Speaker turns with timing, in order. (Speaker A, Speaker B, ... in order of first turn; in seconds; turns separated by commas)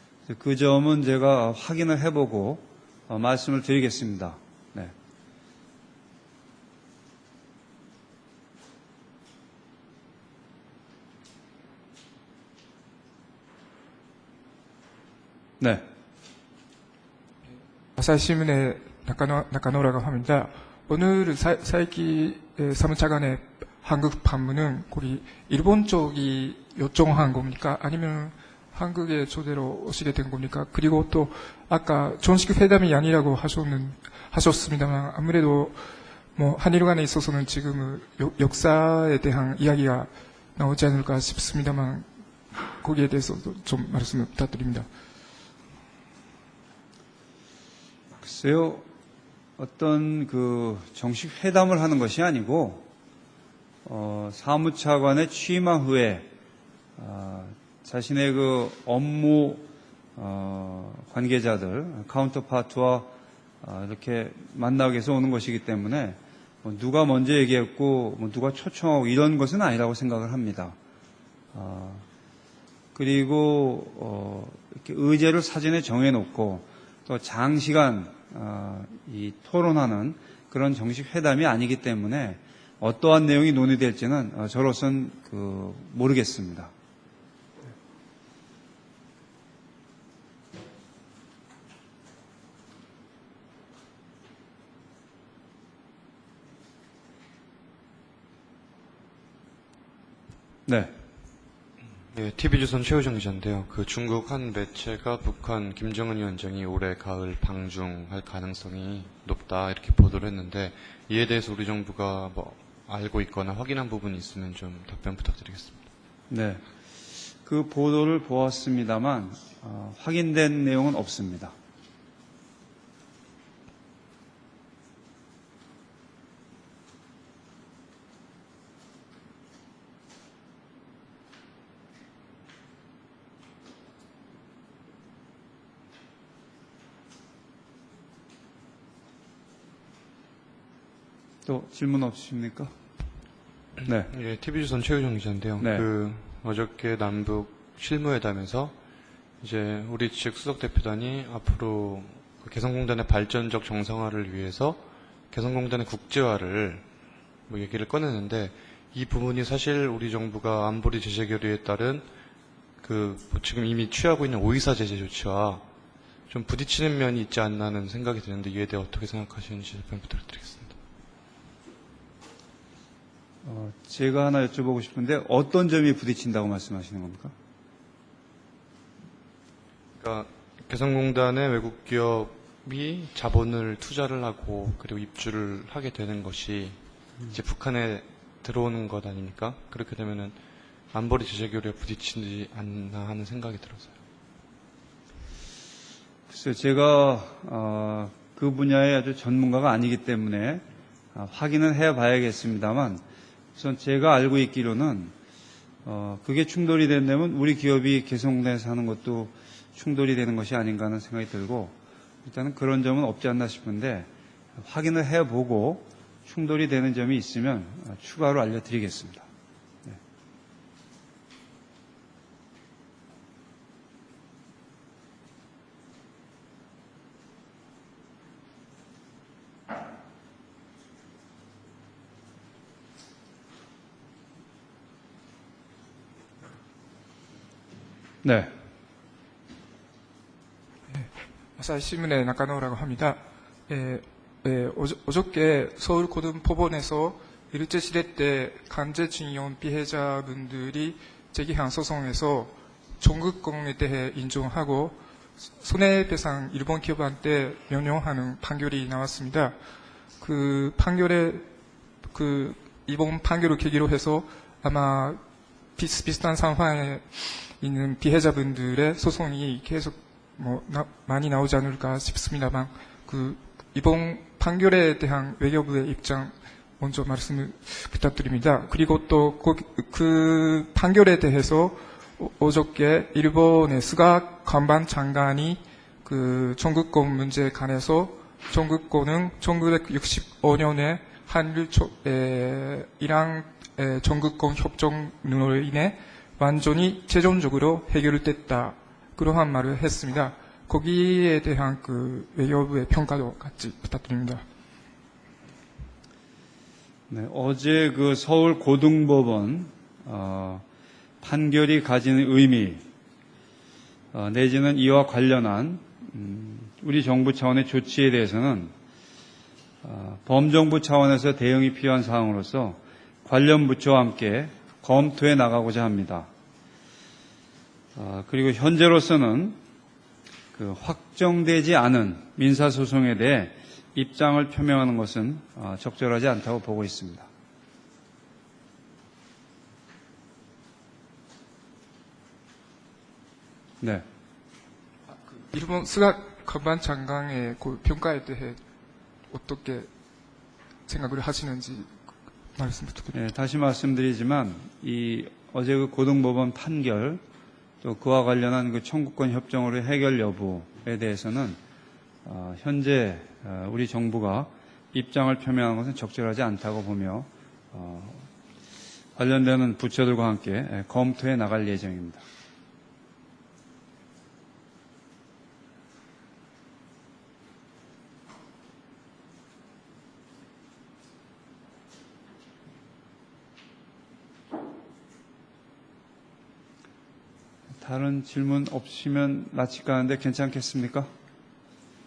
Speaker A: 0.3-4.9, Speaker B: 18.0-42.0, Speaker B: 42.6-44.9, Speaker A: 48.2-48.8, Speaker A: 49.6-52.9, Speaker A: 53.8-56.3, Speaker A: 57.0-59.6, Speaker A: 60.2-70.8, Speaker A: 71.5-72.0, Speaker A: 72.9-86.7, Speaker A: 100.7-100.9, Speaker C: 102.1-115.9, Speaker A: 116.3-116.6, Speaker A: 117.4-121.5, Speaker A: 141.4-142.7, Speaker A: 143.8-144.1, Speaker C: 144.0-148.7, Speaker A: 145.6-145.8, Speaker C: 149.4-156.8, Speaker C: 157.5-162.1, Speaker C: 162.8-165.6, Speaker C: 166.3-170.7, Speaker A: 173.4-177.3, Speaker C: 180.0-186.8, Speaker C: 187.3-190.3, Speaker C: 190.9-193.9, Speaker A: 196.3-200.6, Speaker A: 201.1-203.0, Speaker A: 203.6-205.1, Speaker A: 205.8-219.2, Speaker A: 238.2-238.5, Speaker B: 240.9-255.0, Speaker B: 255.6-259.5, Speaker B: 260.2-261.4, Speaker B: 262.1-265.2, Speaker B: 265.8-304.4, Speaker A: 307.1-310.6, Speaker A: 311.2-312.8, Speaker A: 314.1-318.7, Speaker A: 319.8-326.3, Speaker A: 327.9-329.6, Speaker A: 330.5-337.3, Speaker B: 345.3-348.6, Speaker B: 349.3-349.9, Speaker B: 350.9-351.9, Speaker B: 352.6-353.3, Speaker A: 353.1-357.2, Speaker A: 357.8-361.6, Speaker A: 362.2-368.3, Speaker A: 369.1-372.2, Speaker A: 387.8-391.1